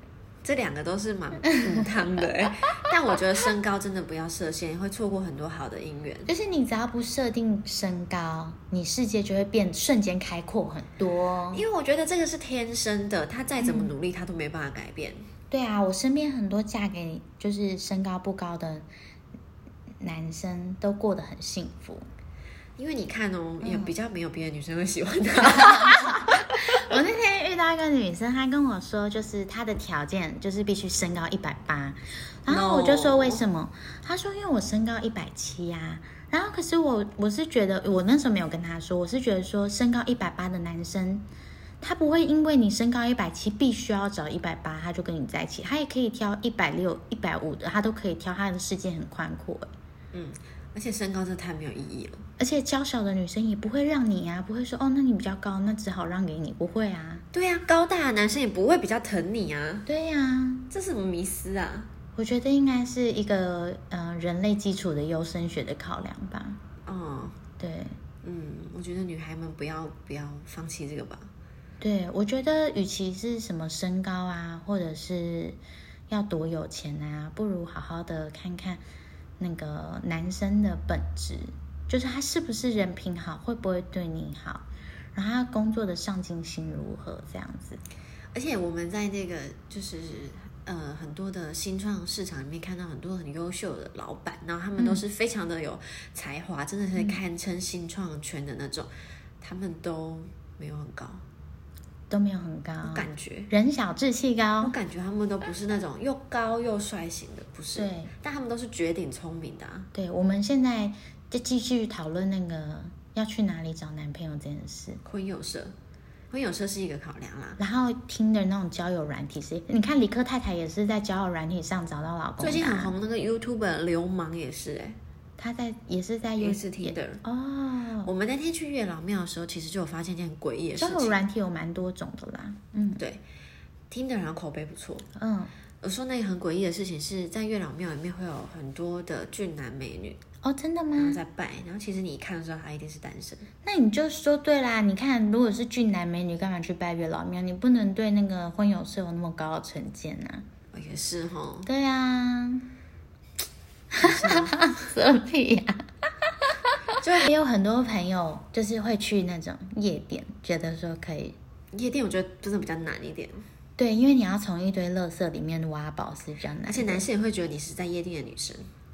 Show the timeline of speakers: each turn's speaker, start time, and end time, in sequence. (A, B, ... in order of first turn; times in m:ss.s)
0:00.4-0:06.3 A
0:06.3-0:11.6 B
0:11.5-0:15.3 A
0:13.6-0:13.9 B
0:15.5-0:18.9 B
0:20.0-0:22.1 B
0:22.8-0:26.6 A
0:23.6-0:23.9 B
0:25.5-0:41.3 B
0:32.5-0:33.4 A
0:41.8-0:49.7 B
0:50.1-0:52.2 A
0:52.4-0:57.2 B
0:57.3-0:59.9 A
0:59.9-1:00.7 B
1:00.7-1:01.9 A
1:02.2-1:06.6 B
1:06.9-1:07.4 A
1:07.6-1:08.0 B
1:08.2-1:11.3 A
1:11.8-1:15.6 B
1:16.1-1:18.8 B
1:19.4-1:27.8 B
1:28.3-1:38.9 A
1:34.8-1:35.0 B
1:39.4-1:41.2 A
1:42.1-1:44.8 B
1:42.8-1:43.5 A
1:44.6-1:49.9 A
1:47.8-1:48.1 B
1:49.9-1:55.0 B
1:55.0-1:55.7 A
1:56.3-1:57.6 A
1:57.6-2:02.9 B
2:02.4-2:05.0 A
2:05.4-2:08.1 B
2:06.4-2:07.2 A
2:08.0-2:11.2 A
2:10.8-2:13.0 B
2:13.9-2:15.1 A
2:15.2-2:15.5 B
2:15.8-2:20.2 A
2:20.4-2:21.2 B
2:21.0-2:23.5 A
2:23.6-2:30.4 B
2:30.7-2:31.7 A
2:31.7-2:32.7 B
2:33.9-2:35.8 B
2:34.0-2:34.6 A
2:37.0-2:37.3 A
2:37.2-2:41.4 B
2:41.7-2:43.4 A
2:43.8-2:47.1 B
2:46.7-2:48.7 A